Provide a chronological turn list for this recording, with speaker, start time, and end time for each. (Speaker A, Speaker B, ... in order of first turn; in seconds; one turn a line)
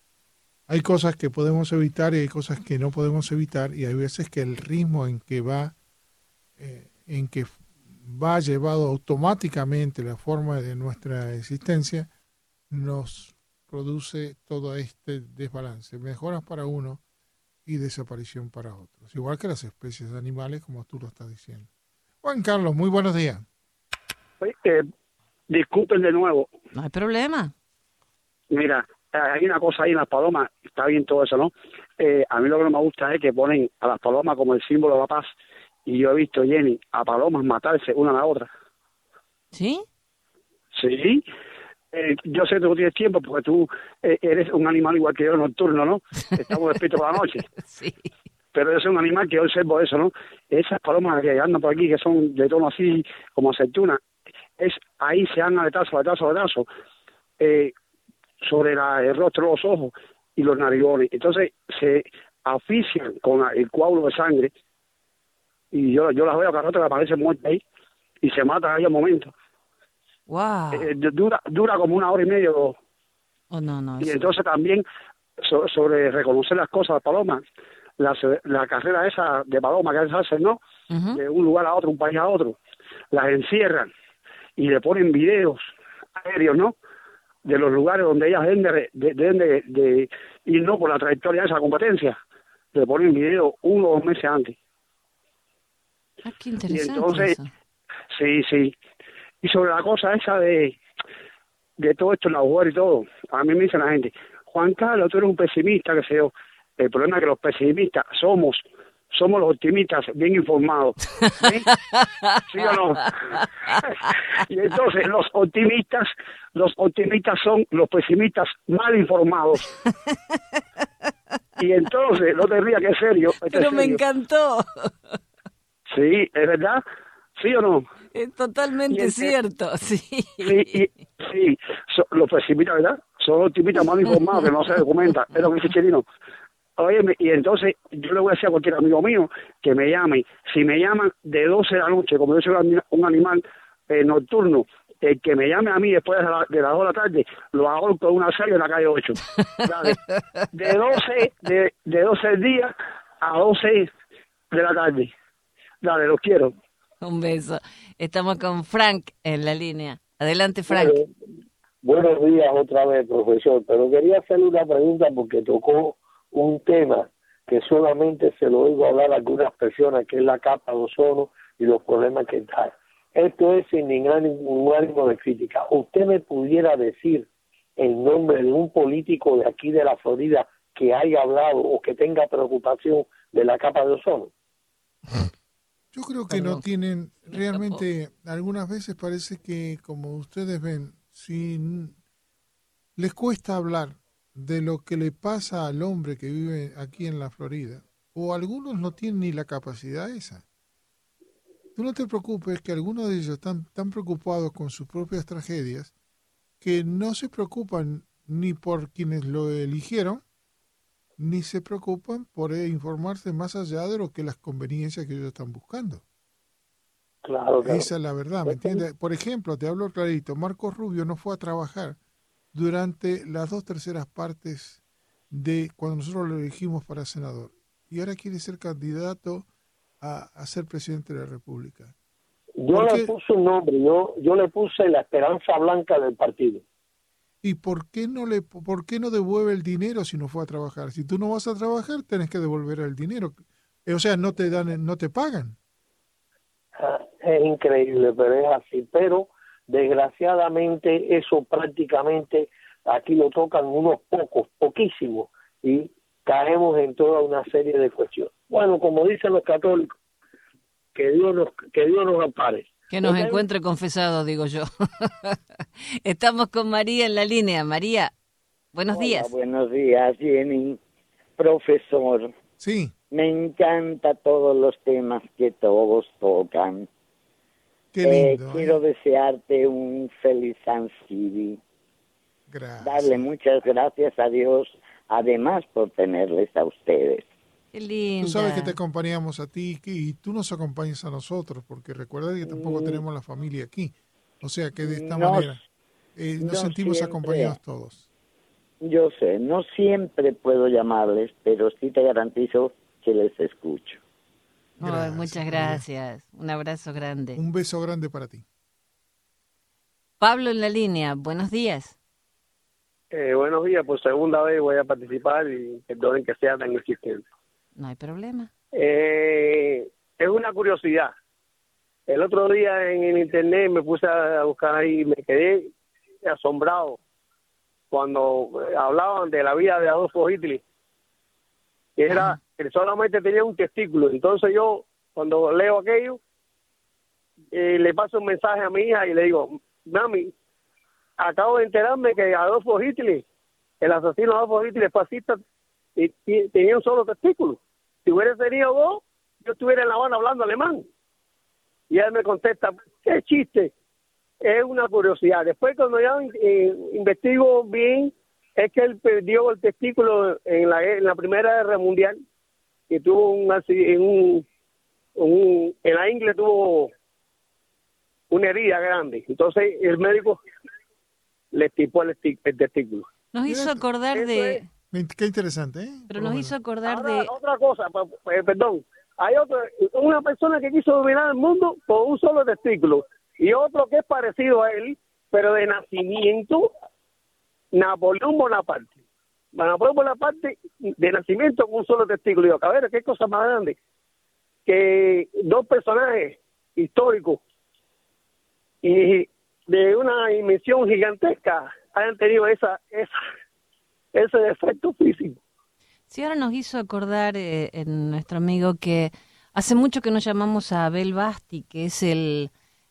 Speaker A: 0.7-5.8
Speaker A: 6.6-12.1
Speaker A: 12.7-17.0
Speaker A: 17.6-21.7
Speaker A: 22.2-23.5
Speaker B: 24.4-24.9
Speaker B: 25.5-26.5
Speaker C: 26.8-27.5
Speaker B: 28.5-35.3
Speaker B: 35.9-38.5
Speaker C: 39.5-39.9
Speaker B: 40.8-41.2
Speaker B: 41.9-47.5
Speaker C: 47.6-48.1
Speaker B: 48.5-54.0
Speaker B: 54.6-56.6
Speaker B: 57.4-57.7
Speaker B: 58.4-64.5
Speaker B: 65.7-67.6
Speaker B: 68.2-69.3
Speaker C: 70.3-70.9
Speaker B: 70.7-72.8
Speaker C: 73.5-74.3
Speaker B: 74.0-74.8
Speaker B: 75.4-77.4
Speaker B: 78.0-80.6
Speaker C: 80.9-81.2
Speaker B: 81.1-82.6
Speaker B: 83.1-83.9
Speaker B: 84.6-85.6
Speaker B: 86.2-86.8
Speaker B: 87.5-92.2
Speaker B: 92.7-94.5
Speaker C: 96.2-97.5
Speaker B: 96.7-97.3
Speaker B: 98.1-98.7
Speaker B: 99.4-100.8
Speaker B: 101.8-108.6
Speaker B: 109.1-111.7
Speaker C: 111.2-114.1
Speaker B: 112.5-113.9
Speaker B: 114.5-119.6
Speaker C: 119.8-120.6
Speaker B: 121.6-124.0
Speaker C: 123.4-125.2
Speaker B: 125.9-126.8
Speaker B: 127.4-127.8
Speaker C: 128.1-130.8
Speaker B: 128.9-129.3
Speaker B: 130.4-136.0
Speaker B: 136.8-150.0
Speaker C: 149.3-150.5
Speaker B: 150.5-153.9
Speaker B: 154.5-155.1
Speaker B: 155.8-156.5
Speaker C: 157.0-161.0
Speaker D: 160.7-161.1
Speaker D: 161.8-184.3
Speaker A: 185.9-192.0
Speaker C: 186.3-186.6
Speaker C: 187.3-187.8
Speaker A: 193.0-200.4
Speaker A: 201.8-205.9
Speaker A: 206.6-210.2
Speaker A: 211.2-216.0
Speaker D: 217.2-217.9
Speaker A: 217.6-222.0
Speaker D: 218.5-218.8
Speaker A: 222.5-224.8
Speaker A: 225.3-229.5
Speaker A: 230.0-231.9
Speaker D: 232.6-236.6
Speaker A: 232.7-233.1
Speaker A: 237.4-245.6
Speaker D: 246.8-260.0
Speaker D: 260.9-263.4
Speaker C: 262.9-268.1
Speaker C: 268.7-269.3
Speaker E: 268.9-270.8
Speaker E: 271.4-272.3
Speaker A: 272.6-272.9
Speaker E: 273.1-276.9
Speaker A: 277.9-278.8
Speaker E: 278.0-281.6
Speaker A: 282.5-283.3
Speaker E: 282.8-287.2
Speaker C: 287.7-288.8
Speaker A: 288.2-295.6
Speaker E: 292.5-293.0
Speaker E: 294.8-295.6
Speaker A: 296.2-298.0
Speaker E: 296.4-297.6
Speaker E: 298.8-304.0
Speaker C: 304.8-307.4
Speaker A: 304.8-305.8
Speaker A: 307.3-308.4
Speaker C: 310.2-312.0
Speaker F: 313.1-317.2
Speaker C: 317.8-318.5
Speaker F: 318.8-321.1
Speaker F: 322.1-325.7
Speaker F: 326.2-327.0
Speaker F: 327.9-330.6
Speaker F: 332.0-336.2
Speaker C: 332.1-332.4
Speaker F: 337.5-340.3
Speaker F: 341.2-343.2
Speaker F: 343.8-345.4
Speaker F: 346.0-350.8
Speaker F: 351.9-353.7
Speaker F: 354.4-362.2
Speaker F: 362.9-364.4
Speaker F: 365.2-366.9
Speaker F: 368.3-370.4
Speaker F: 371.5-373.1
Speaker C: 373.3-374.6
Speaker A: 373.5-373.8
Speaker F: 374.1-374.6
Speaker A: 374.9-376.5
Speaker C: 376.1-377.3
Speaker F: 376.8-386.7
Speaker F: 387.7-388.9
Speaker F: 389.5-393.8
Speaker F: 394.7-397.4
Speaker F: 398.8-403.2
Speaker F: 404.1-405.4
Speaker C: 406.1-412.5